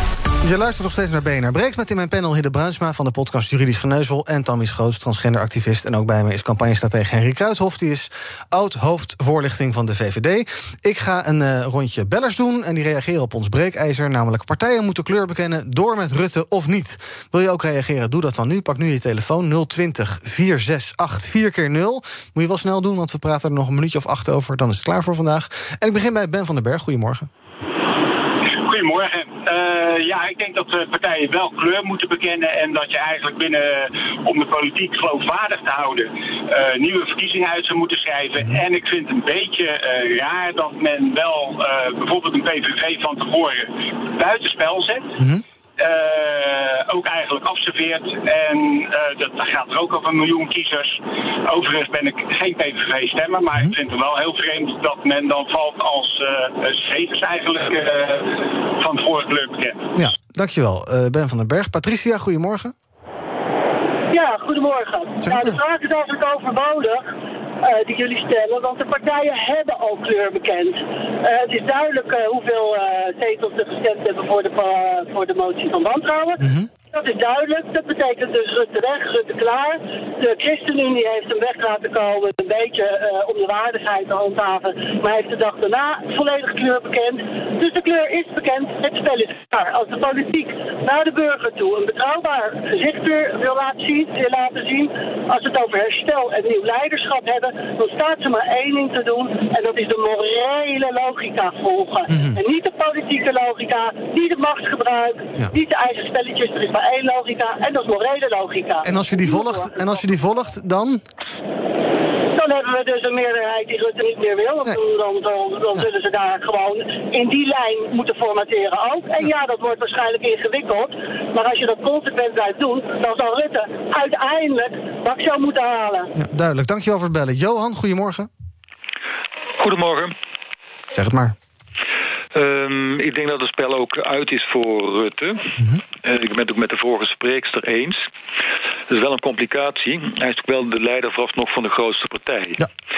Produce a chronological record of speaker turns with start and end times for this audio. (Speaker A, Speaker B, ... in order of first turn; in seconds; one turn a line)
Speaker A: 0.4-27.3
Speaker B: 28.6-45.1
Speaker B: 45.8-59.9
Speaker A: 59.9-62.7
Speaker C: 64.1-67.0
Speaker A: 65.2-65.6
Speaker C: 67.6-110.0
Speaker A: 76.4-76.7
Speaker A: 102.1-102.4
Speaker A: 108.8-111.0
Speaker C: 112.3-126.1
Speaker A: 126.1-128.3
Speaker D: 129.6-130.1
Speaker A: 130.9-131.3
Speaker D: 132.3-135.4
Speaker D: 136.0-138.0
Speaker D: 138.9-142.6